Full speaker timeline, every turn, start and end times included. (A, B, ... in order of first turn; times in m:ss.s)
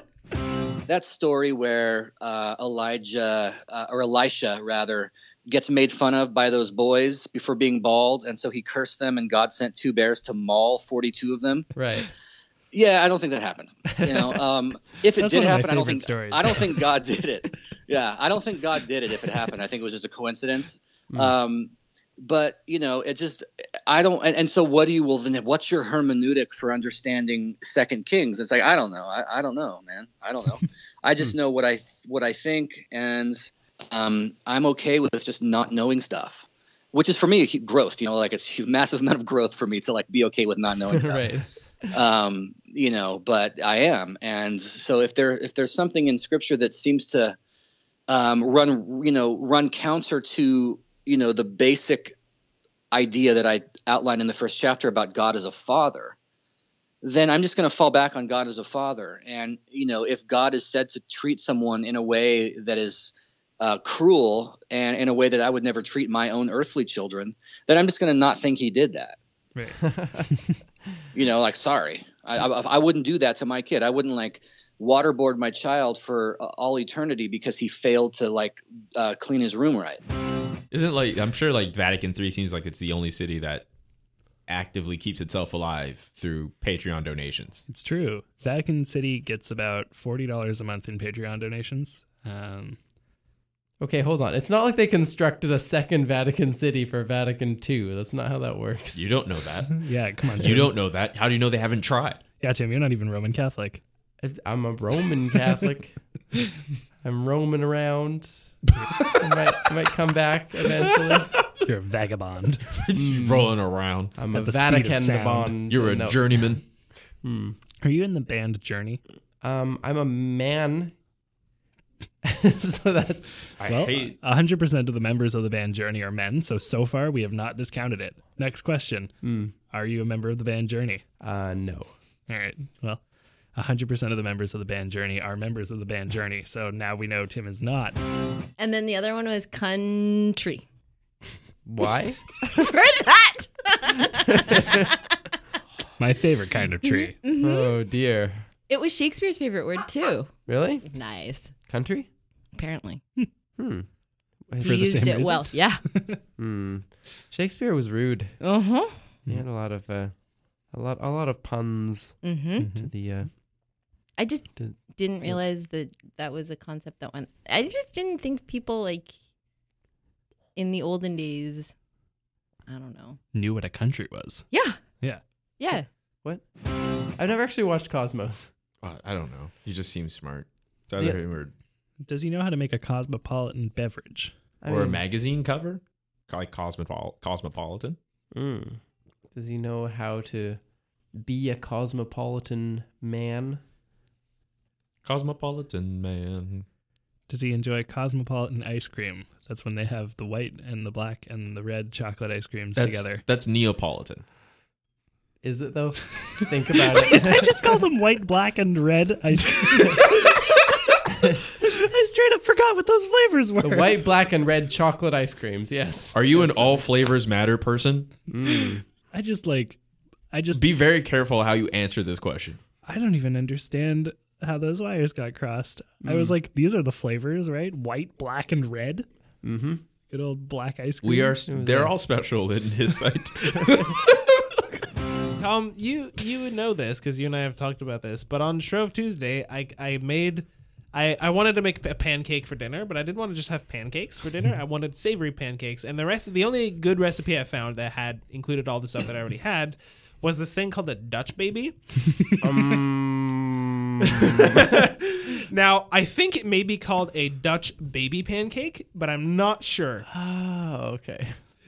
0:00.9-0:11.7 A
0:11.8-0:12.1 B
0:12.7-0:21.7 A
0:14.0-0:14.4 B
0:15.2-0:16.7 C
0:22.2-0:41.4 A
0:40.9-0:41.9 B
0:41.9-0:47.4 A
0:48.1-0:52.2 A
0:52.9-0:56.2 A
0:57.0-1:09.2 A
1:09.6-1:10.5 C
1:09.9-1:10.2 B
1:11.1-1:20.0 A
1:20.7-1:23.7 D
1:24.5-1:27.7 D
1:27.7-1:32.8 C
1:33.8-1:39.3 B
1:38.9-1:42.2 D
1:39.8-1:40.7 C
1:42.4-1:43.8 C
1:44.2-1:46.3 B
1:47.0-1:51.4 B
1:51.6-1:52.7 C
1:52.8-1:54.2 D
1:53.0-1:57.6 B
1:54.3-1:55.6 C
1:55.7-1:56.7 D
1:57.8-1:59.0 C
1:59.4-2:01.0 B
2:02.2-2:03.5 B
2:03.6-2:04.2 D
2:03.6-2:11.0 C
2:09.2-2:09.5 B
2:11.2-2:12.0 B
2:12.3-2:18.0 C
2:18.6-2:20.7 E
2:21.6-2:22.6 B
2:22.6-2:24.8 E
2:26.0-2:27.2 C
2:27.0-2:27.8 E
2:27.4-2:28.5 B
2:28.7-2:31.6 E
2:30.5-2:30.9 B
2:31.7-2:32.1 B
2:32.5-2:33.0 E
2:33.6-2:34.6 B
2:34.6-2:36.0 E
2:34.6-2:36.2 C
2:36.4-2:38.4 B
2:38.4-2:39.2 E
2:39.3-2:43.4 B
2:42.2-2:42.7 E
2:42.6-2:42.9 C
2:44.2-2:49.2 E
2:44.6-2:45.4 B
2:50.6-2:51.8 E
2:52.7-2:53.2 E
2:53.3-2:55.2 C
2:54.5-2:55.9 E
2:55.7-2:58.5 B
2:58.8-3:01.5 D
3:02.0-3:04.4 C
3:04.6-3:05.1 B
3:04.7-3:08.0 D
3:08.3-3:13.6 B
3:15.0-3:16.7 D
3:17.3-3:23.2 C
3:22.8-3:24.2 D
3:25.4-3:27.8 B
3:27.0-3:31.0 C
3:31.6-3:34.1 C
3:33.6-3:36.9 B
3:36.1-3:38.3 D
3:38.3-3:38.8 B
3:39.1-3:40.6 C
3:40.5-3:42.6 D
3:42.8-3:49.1 C
3:46.0-3:46.4 B
3:49.4-3:49.8 B
3:50.1-3:51.4 C
3:51.0-3:54.0 D
3:51.5-3:52.0 B
3:55.4-4:12.2 F
4:12.4-4:14.4 B
4:14.3-4:20.1 F
4:20.1-4:21.5 B